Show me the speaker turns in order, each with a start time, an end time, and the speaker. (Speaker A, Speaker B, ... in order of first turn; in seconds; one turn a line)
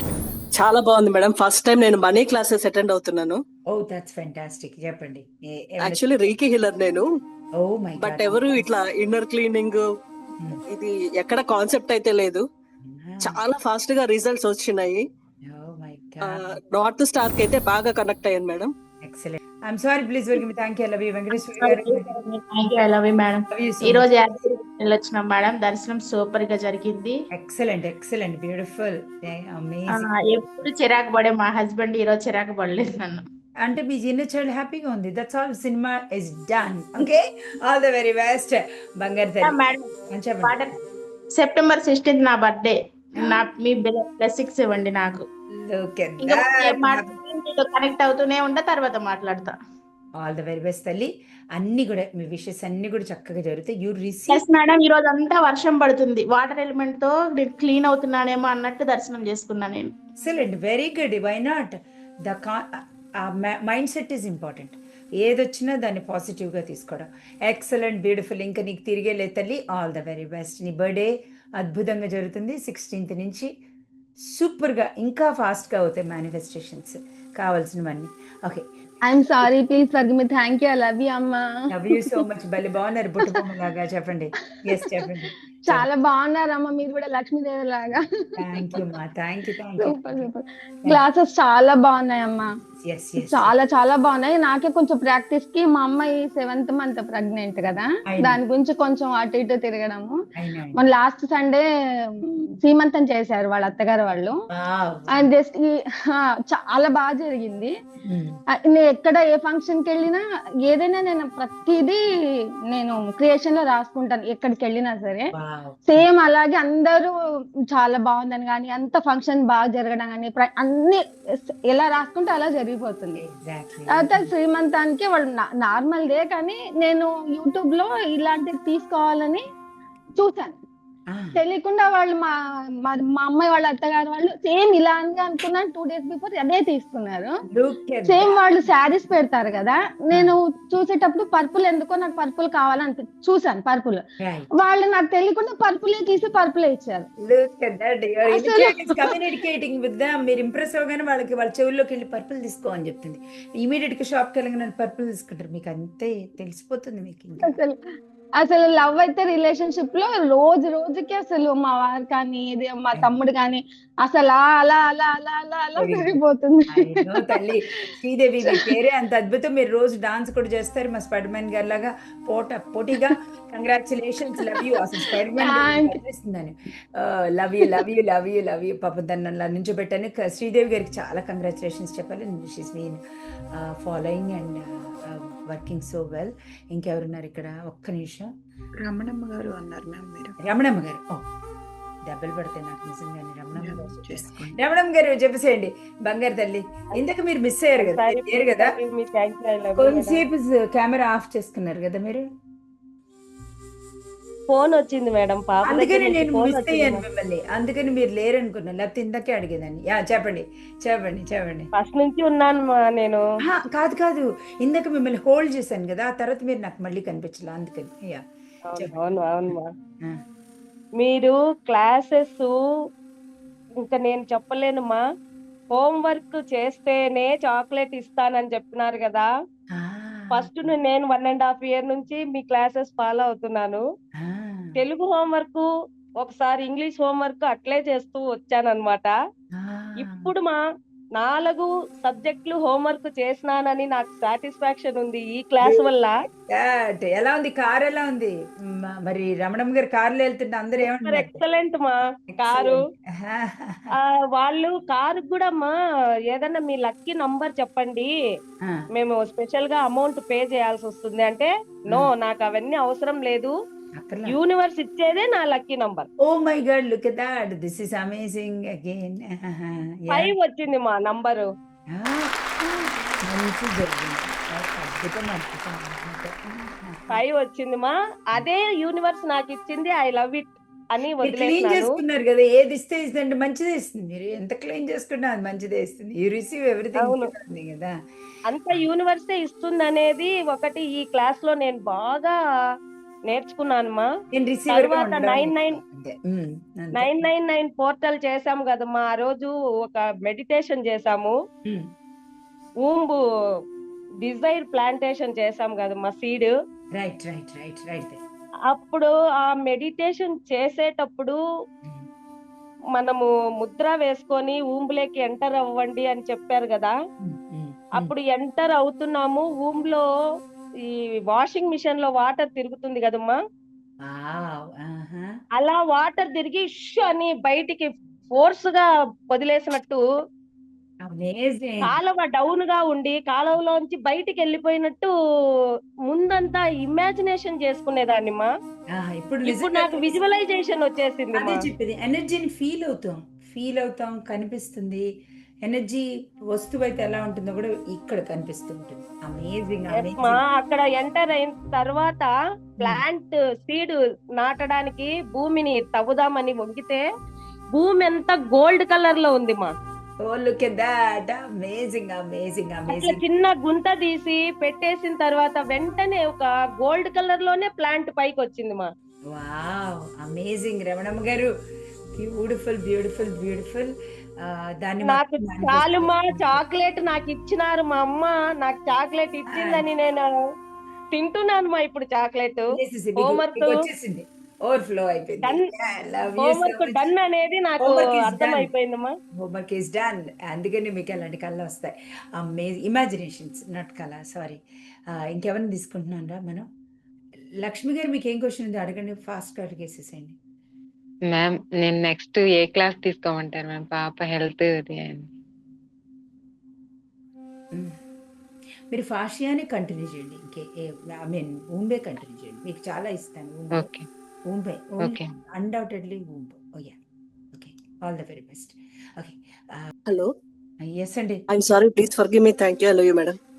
Speaker A: 0.6-3.4
Speaker B: 3.7-6.0
Speaker A: 5.8-7.0
Speaker B: 7.6-8.7
Speaker A: 8.0-9.8
Speaker A: 10.7-12.4
Speaker B: 12.8-13.4
Speaker A: 13.2-15.0
Speaker B: 15.5-16.6
Speaker A: 16.2-18.7
Speaker B: 19.0-22.1
Speaker C: 21.4-27.1
Speaker B: 23.5-24.1
Speaker B: 27.3-30.1
Speaker C: 29.9-33.2
Speaker B: 33.6-39.6
Speaker C: 39.4-39.9
Speaker B: 40.1-40.6
Speaker C: 40.4-40.7
Speaker C: 41.3-45.2
Speaker B: 45.6-47.1
Speaker C: 46.2-49.5
Speaker B: 50.2-54.4
Speaker C: 54.3-59.9
Speaker B: 60.2-61.8
Speaker B: 62.3-73.5
Speaker B: 74.3-78.6
Speaker D: 79.1-81.4
Speaker B: 81.7-85.9
Speaker D: 85.7-88.0
Speaker B: 88.4-90.3
Speaker D: 89.8-92.5
Speaker B: 92.8-93.5
Speaker D: 93.3-100.2
Speaker B: 98.0-98.4
Speaker B: 100.3-100.8
Speaker D: 100.8-101.6
Speaker D: 102.2-104.4
Speaker B: 104.5-105.3
Speaker D: 105.2-107.7
Speaker B: 108.1-108.4
Speaker D: 108.6-112.0
Speaker D: 112.7-115.3
Speaker B: 115.3-116.1
Speaker D: 115.9-117.1
Speaker D: 117.7-121.0
Speaker D: 121.7-123.2
Speaker B: 123.2-124.3
Speaker D: 123.9-129.4
Speaker D: 130.2-130.6
Speaker B: 131.1-131.4
Speaker D: 131.3-132.3
Speaker D: 132.8-137.3
Speaker B: 137.5-138.4
Speaker D: 138.1-144.0
Speaker B: 140.1-140.4
Speaker B: 144.2-144.5
Speaker D: 144.6-147.1
Speaker B: 147.2-157.6
Speaker D: 148.3-148.9
Speaker D: 157.4-157.8
Speaker D: 158.4-166.9
Speaker B: 165.8-166.2
Speaker B: 166.7-183.0
Speaker D: 175.4-176.0
Speaker B: 183.6-188.3
Speaker E: 188.8-190.3
Speaker B: 190.4-191.2
Speaker B: 192.1-198.7
Speaker E: 193.5-194.6
Speaker F: 197.8-200.2
Speaker B: 199.8-202.3
Speaker F: 204.5-207.0
Speaker B: 205.7-211.7
Speaker F: 211.8-213.2
Speaker B: 213.4-218.2
Speaker F: 218.7-219.7
Speaker B: 218.8-220.2
Speaker F: 221.0-222.5
Speaker F: 223.8-225.0
Speaker F: 225.7-229.3
Speaker B: 229.7-230.7
Speaker F: 230.3-233.8
Speaker B: 234.2-234.8
Speaker F: 234.8-235.7
Speaker F: 236.2-239.1
Speaker B: 239.6-240.3
Speaker F: 240.0-240.6
Speaker F: 241.2-246.1
Speaker B: 246.5-251.4
Speaker F: 250.9-252.7
Speaker B: 252.3-253.9
Speaker F: 254.4-255.7
Speaker F: 256.3-258.1
Speaker F: 258.9-263.5
Speaker B: 264.0-264.4
Speaker F: 264.3-266.1
Speaker B: 266.2-270.3
Speaker F: 270.1-271.5
Speaker B: 271.9-277.0
Speaker F: 277.1-281.9
Speaker B: 281.2-287.9
Speaker F: 287.0-287.3
Speaker F: 288.5-292.3
Speaker F: 293.3-294.1
Speaker B: 294.3-297.3
Speaker F: 294.7-295.8
Speaker F: 297.0-301.4
Speaker F: 302.8-303.2
Speaker F: 304.2-306.5
Speaker B: 307.0-308.2
Speaker F: 308.7-311.4
Speaker F: 313.0-316.9
Speaker B: 317.2-318.1
Speaker F: 318.0-320.0
Speaker F: 320.9-323.4
Speaker B: 324.0-325.3
Speaker F: 325.6-330.0
Speaker B: 331.1-331.9
Speaker F: 331.9-335.1
Speaker F: 336.1-338.5
Speaker B: 338.9-340.2
Speaker F: 339.4-341.6
Speaker B: 341.3-345.1
Speaker B: 345.6-350.4
Speaker F: 350.0-357.0
Speaker F: 357.8-359.7
Speaker B: 360.2-363.2
Speaker F: 362.9-368.9
Speaker B: 369.3-371.5
Speaker B: 372.2-376.6
Speaker F: 375.1-380.2
Speaker B: 379.5-379.9
Speaker F: 381.1-382.6
Speaker B: 382.7-387.1
Speaker F: 383.2-383.7
Speaker F: 386.4-389.1
Speaker B: 387.8-388.7
Speaker B: 389.4-394.6
Speaker B: 395.1-396.7
Speaker B: 397.6-400.4
Speaker G: 401.2-405.2
Speaker B: 408.9-413.9
Speaker G: 413.8-414.0
Speaker B: 414.5-416.9
Speaker G: 415.0-415.3
Speaker B: 417.5-419.9
Speaker B: 420.8-421.4
Speaker A: 421.5-423.4